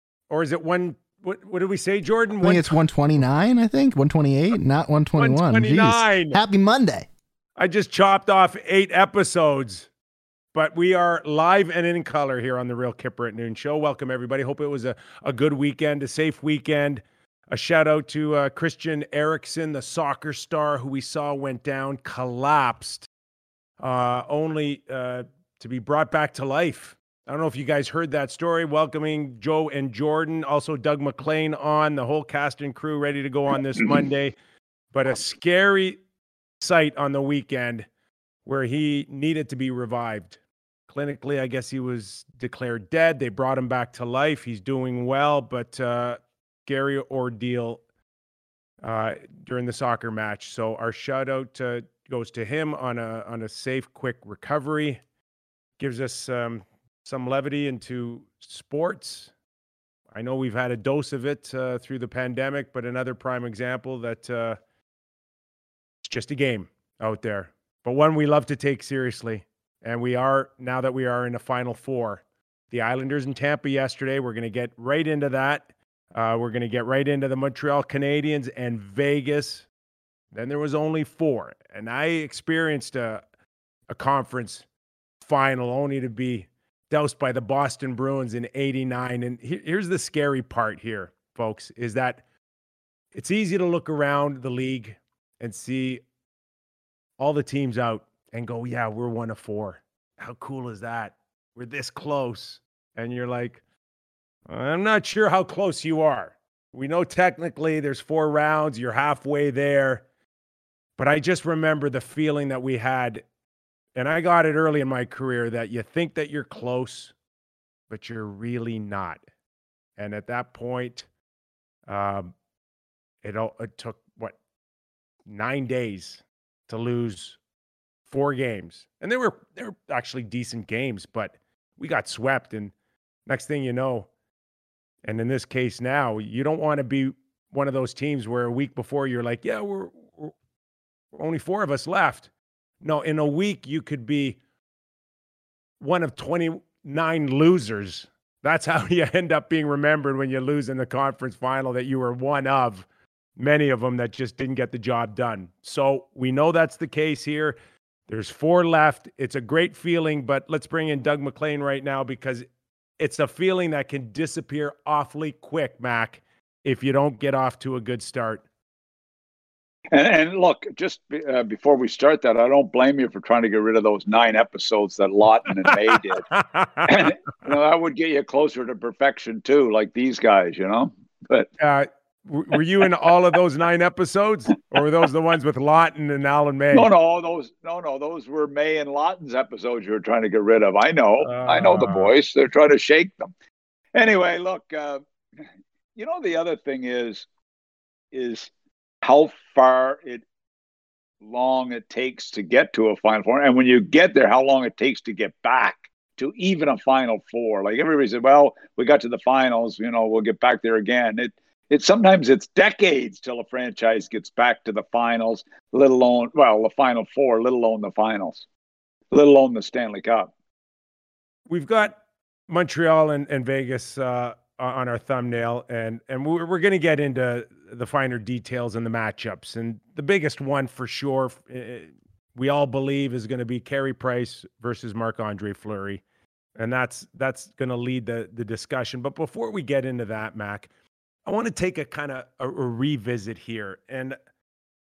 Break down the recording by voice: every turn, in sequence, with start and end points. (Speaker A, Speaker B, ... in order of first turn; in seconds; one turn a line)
Speaker A: 0.3-2.8
Speaker B: 2.4-7.1
Speaker A: 5.2-6.4
Speaker A: 7.6-9.9
Speaker A: 10.5-23.1
Speaker A: 23.8-34.3
Speaker A: 34.9-36.0
Speaker A: 36.6-37.9
Speaker A: 38.5-40.4
Speaker A: 40.9-47.8
Speaker A: 48.8-55.0
Speaker A: 55.8-59.3
Speaker A: 60.1-64.6
Speaker A: 66.0-75.6
Speaker A: 76.1-79.7
Speaker A: 80.3-83.2
Speaker A: 83.9-84.6
Speaker A: 85.2-92.2
Speaker A: 93.1-96.0
Speaker A: 97.2-103.6
Speaker A: 104.5-110.0
Speaker A: 111.0-113.2
Speaker A: 114.0-117.1
Speaker A: 117.9-119.2
Speaker A: 120.0-121.1
Speaker A: 121.9-122.3
Speaker A: 123.2-124.3
Speaker A: 125.3-127.4
Speaker A: 128.1-132.7
Speaker A: 133.3-134.1
Speaker A: 135.1-140.3
Speaker A: 141.1-142.3
Speaker A: 142.8-144.4
Speaker A: 145.8-152.8
Speaker A: 153.4-157.6
Speaker A: 158.1-162.4
Speaker A: 163.0-168.4
Speaker C: 169.9-176.2
Speaker A: 176.3-177.1
Speaker C: 176.8-181.5
Speaker A: 181.6-186.9
Speaker C: 186.7-193.3
Speaker A: 191.2-192.1
Speaker C: 193.9-195.1
Speaker C: 196.0-197.3
Speaker C: 198.1-198.5
Speaker C: 199.0-200.2
Speaker C: 201.2-218.4
Speaker C: 219.1-220.3
Speaker A: 221.5-221.9
Speaker A: 222.5-236.0
Speaker A: 236.6-240.7
Speaker A: 241.2-244.2